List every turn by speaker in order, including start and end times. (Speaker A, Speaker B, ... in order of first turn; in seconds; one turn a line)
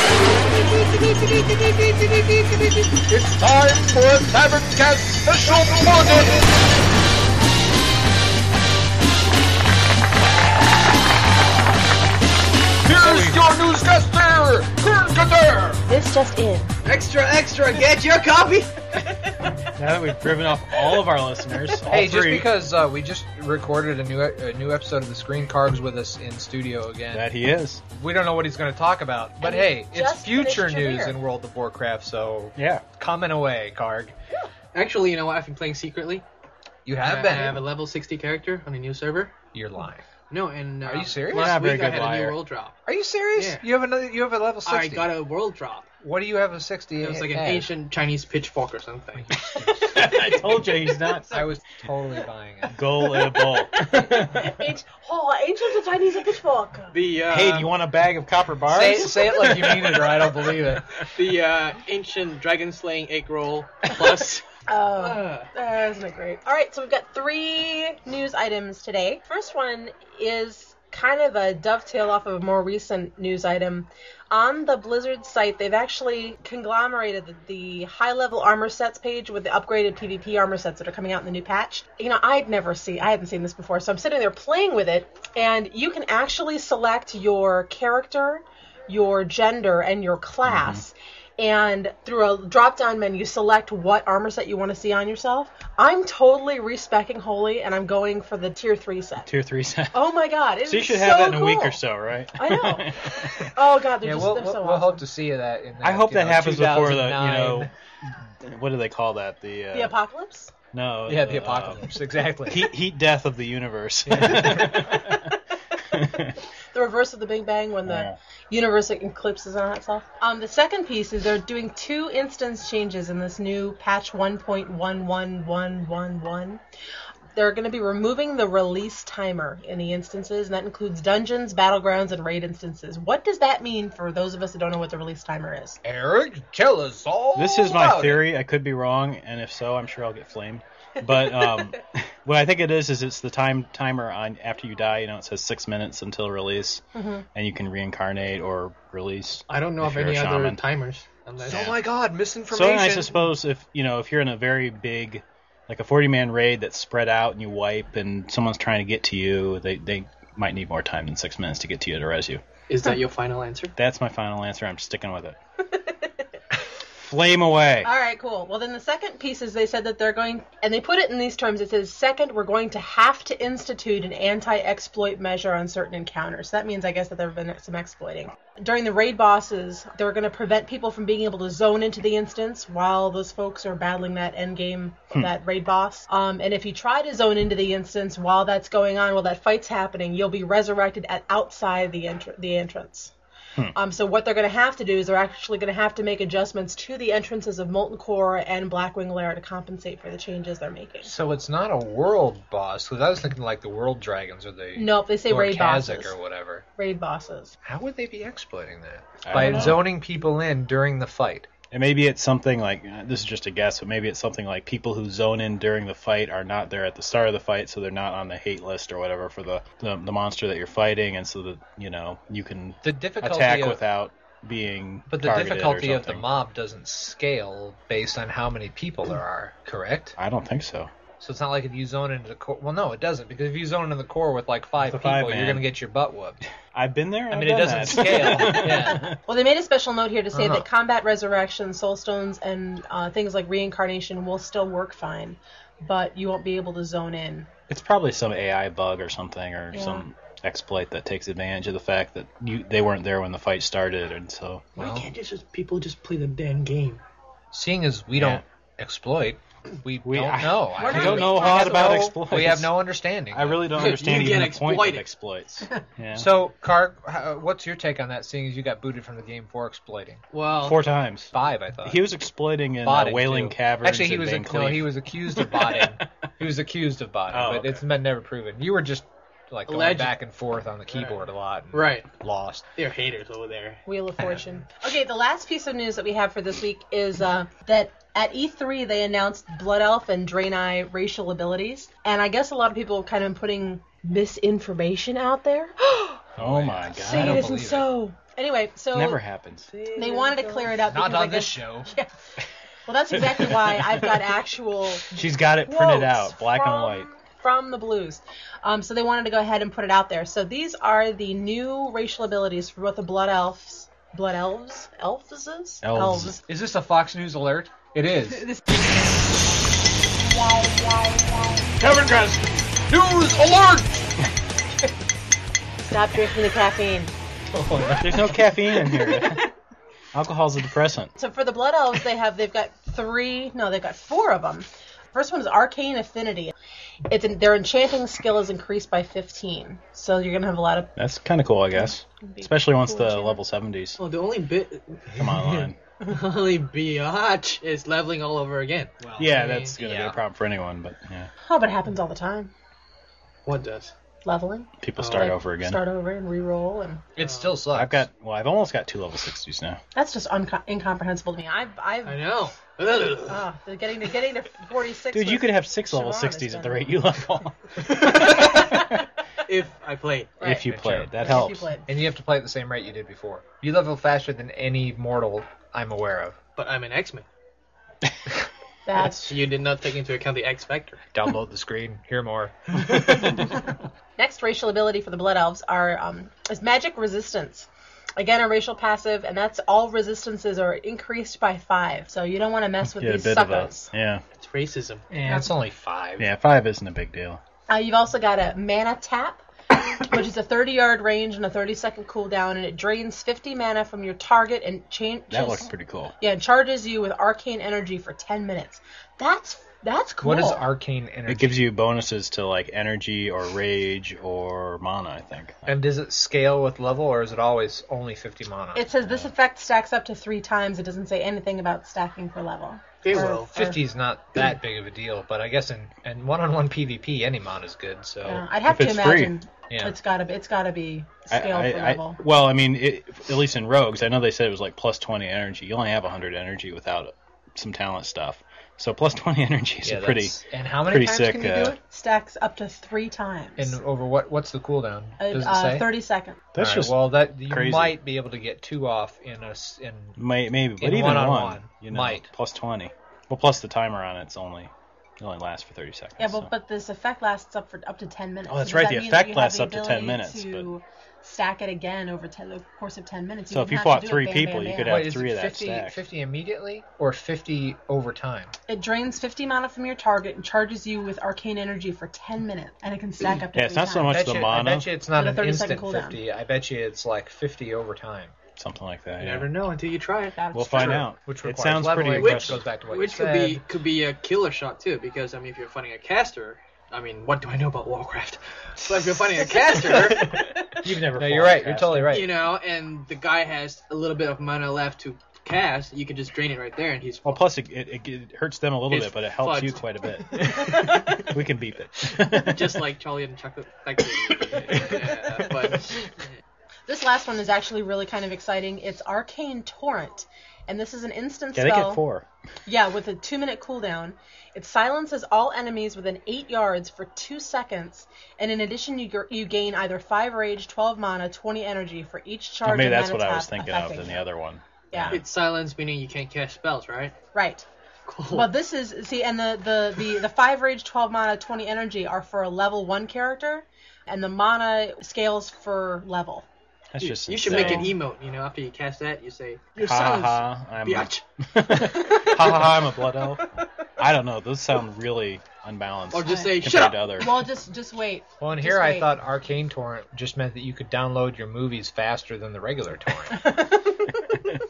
Speaker A: 0.5-3.2
Speaker B: 3.4-6.4
Speaker A: 5.3-6.2
Speaker A: 12.8-13.4
Speaker B: 12.9-14.7
Speaker A: 14.8-15.8
Speaker C: 15.9-16.8
Speaker D: 16.8-18.7
Speaker E: 19.6-22.5
Speaker A: 21.9-27.3
Speaker E: 27.1-27.8
Speaker A: 27.9-34.1
Speaker C: 29.4-31.2
Speaker E: 32.5-32.8
Speaker D: 34.7-36.2
Speaker A: 36.9-37.6
Speaker D: 37.0-39.3
Speaker A: 39.5-40.0
Speaker D: 40.3-42.7
Speaker A: 40.8-41.6
Speaker E: 41.3-42.4
Speaker A: 42.9-45.1
Speaker D: 43.3-43.6
Speaker D: 44.6-45.9
Speaker A: 46.0-47.7
Speaker D: 47.0-49.3
Speaker A: 49.2-50.0
Speaker E: 49.3-51.3
Speaker C: 50.0-51.5
Speaker A: 51.3-52.8
Speaker E: 52.7-54.6
Speaker C: 52.9-57.0
Speaker D: 56.9-57.7
Speaker E: 57.3-59.3
Speaker A: 58.7-61.1
Speaker C: 59.2-59.6
Speaker D: 61.1-64.4
Speaker C: 64.7-99.3
Speaker D: 65.0-65.5
Speaker E: 90.5-90.8
Speaker E: 99.2-100.0
Speaker C: 99.9-101.8
Speaker E: 100.6-103.6
Speaker C: 102.3-105.0
Speaker A: 104.0-107.7
Speaker E: 105.8-109.9
Speaker C: 109.7-110.5
Speaker E: 110.7-111.9
Speaker A: 111.1-112.7
Speaker E: 112.5-115.3
Speaker A: 114.0-114.7
Speaker C: 114.2-115.3
Speaker E: 115.9-116.4
Speaker C: 116.7-126.6
Speaker E: 117.8-118.2
Speaker C: 127.3-135.8
Speaker A: 135.8-138.3
Speaker E: 137.3-146.8
Speaker C: 141.1-141.7
Speaker C: 146.9-147.2
Speaker E: 147.3-150.6
Speaker D: 149.5-151.8
Speaker A: 151.4-153.2
Speaker E: 151.5-151.8
Speaker E: 152.5-162.4
Speaker D: 162.7-163.7
Speaker E: 163.8-165.3
Speaker C: 165.8-166.0
Speaker E: 167.0-167.9
Speaker C: 167.8-193.1
Speaker C: 193.7-201.1
Speaker A: 201.0-206.6
Speaker C: 204.8-206.2
Speaker C: 206.8-207.5
Speaker A: 207.6-211.5
Speaker E: 209.2-209.9
Speaker C: 209.3-209.7
Speaker E: 211.7-226.2
Speaker A: 222.8-223.8
Speaker A: 225.1-230.1
Speaker E: 230.2-230.9
Speaker A: 231.2-236.4
Speaker E: 234.8-235.7
Speaker E: 236.7-239.2
Speaker A: 237.3-239.1
Speaker C: 238.1-247.5
Speaker A: 240.3-240.7
Speaker E: 247.7-254.7
Speaker C: 249.7-250.0
Speaker A: 254.8-255.1
Speaker D: 254.8-257.0
Speaker A: 257.5-263.9
Speaker E: 258.1-258.4
Speaker E: 260.0-262.7
Speaker C: 260.8-262.0
Speaker E: 263.3-266.3
Speaker D: 263.7-265.1
Speaker A: 266.1-270.2
Speaker D: 270.3-270.8
Speaker E: 270.6-276.0
Speaker A: 271.3-272.1
Speaker A: 272.8-282.6
Speaker E: 277.3-277.8
Speaker D: 279.7-280.2
Speaker D: 280.9-281.2
Speaker D: 281.7-282.1
Speaker D: 282.8-283.8
Speaker C: 283.9-296.2
Speaker A: 296.4-297.9
Speaker E: 296.4-297.4
Speaker C: 296.9-299.2
Speaker E: 298.9-299.7
Speaker D: 299.7-300.8
Speaker C: 299.9-302.1
Speaker A: 300.9-301.9
Speaker C: 302.9-316.4
Speaker E: 303.1-304.3
Speaker E: 305.1-307.1
Speaker E: 315.8-316.4
Speaker A: 316.5-318.5
Speaker C: 318.4-318.8
Speaker C: 320.3-321.7
Speaker A: 321.8-324.0
Speaker C: 325.8-327.1
Speaker A: 327.5-328.4
Speaker E: 328.0-329.4
Speaker C: 328.7-329.4
Speaker E: 330.1-331.1
Speaker C: 331.2-336.5
Speaker C: 337.1-340.9
Speaker E: 341.0-344.0
Speaker C: 341.7-343.4
Speaker D: 344.0-349.7
Speaker E: 345.1-345.8
Speaker A: 349.0-350.2
Speaker E: 349.2-351.3
Speaker C: 351.4-352.5
Speaker D: 353.4-353.9
Speaker C: 354.2-357.0
Speaker E: 354.8-355.8
Speaker D: 355.0-355.3
Speaker A: 357.1-358.1
Speaker D: 357.2-357.7
Speaker E: 357.7-359.8
Speaker C: 359.9-362.2
Speaker D: 362.1-363.4
Speaker C: 363.2-367.0
Speaker E: 365.1-368.9
Speaker C: 367.9-368.8
Speaker D: 369.5-370.4
Speaker C: 370.4-370.6
Speaker E: 370.4-371.7
Speaker A: 370.6-376.4
Speaker C: 371.2-371.9
Speaker D: 376.6-377.3
Speaker C: 378.9-379.4
Speaker D: 379.0-381.0
Speaker A: 381.1-382.8
Speaker C: 384.2-393.9
Speaker E: 392.9-394.2
Speaker D: 394.4-395.5
Speaker A: 395.1-396.3
Speaker E: 396.2-397.4
Speaker C: 397.7-399.4
Speaker C: 400.0-410.7
Speaker E: 405.3-406.1
Speaker A: 410.2-411.7
Speaker E: 411.3-415.7
Speaker A: 415.7-419.2
Speaker C: 418.7-423.7
Speaker D: 423.0-423.8
Speaker A: 423.5-428.4
Speaker C: 428.2-432.2
Speaker E: 428.3-429.4
Speaker A: 429.7-430.0
Speaker E: 431.3-441.8
Speaker A: 439.8-441.8
Speaker C: 441.9-443.8
Speaker A: 443.6-445.9
Speaker C: 445.2-446.4
Speaker E: 446.5-448.0
Speaker A: 446.6-450.2
Speaker E: 450.2-456.5
Speaker A: 450.8-452.3
Speaker C: 456.2-465.1
Speaker E: 458.5-460.7
Speaker E: 463.5-466.0
Speaker A: 464.9-468.5
Speaker C: 468.7-474.1
Speaker E: 473.5-474.9
Speaker A: 474.1-478.3
Speaker C: 475.1-476.2
Speaker E: 478.6-479.5
Speaker D: 479.2-481.1
Speaker C: 480.3-481.0
Speaker E: 480.5-482.6
Speaker A: 481.2-483.6
Speaker D: 482.2-490.4
Speaker A: 489.6-492.4
Speaker E: 490.9-492.3
Speaker D: 492.1-497.5
Speaker E: 497.2-502.9
Speaker D: 498.9-499.8
Speaker D: 502.4-506.2
Speaker E: 504.7-505.0
Speaker C: 506.9-512.0
Speaker E: 511.5-512.2
Speaker C: 512.6-524.3
Speaker E: 522.6-525.2
Speaker C: 524.9-525.2
Speaker D: 525.1-527.1
Speaker C: 527.3-527.7
Speaker D: 528.1-528.5
Speaker C: 528.3-536.5
Speaker E: 536.9-538.0
Speaker D: 537.0-543.4
Speaker C: 537.5-537.9
Speaker E: 539.8-543.4
Speaker E: 544.0-547.3
Speaker D: 546.1-547.3
Speaker C: 546.2-546.5
Speaker C: 547.1-549.1
Speaker A: 548.4-553.4
Speaker C: 553.3-554.5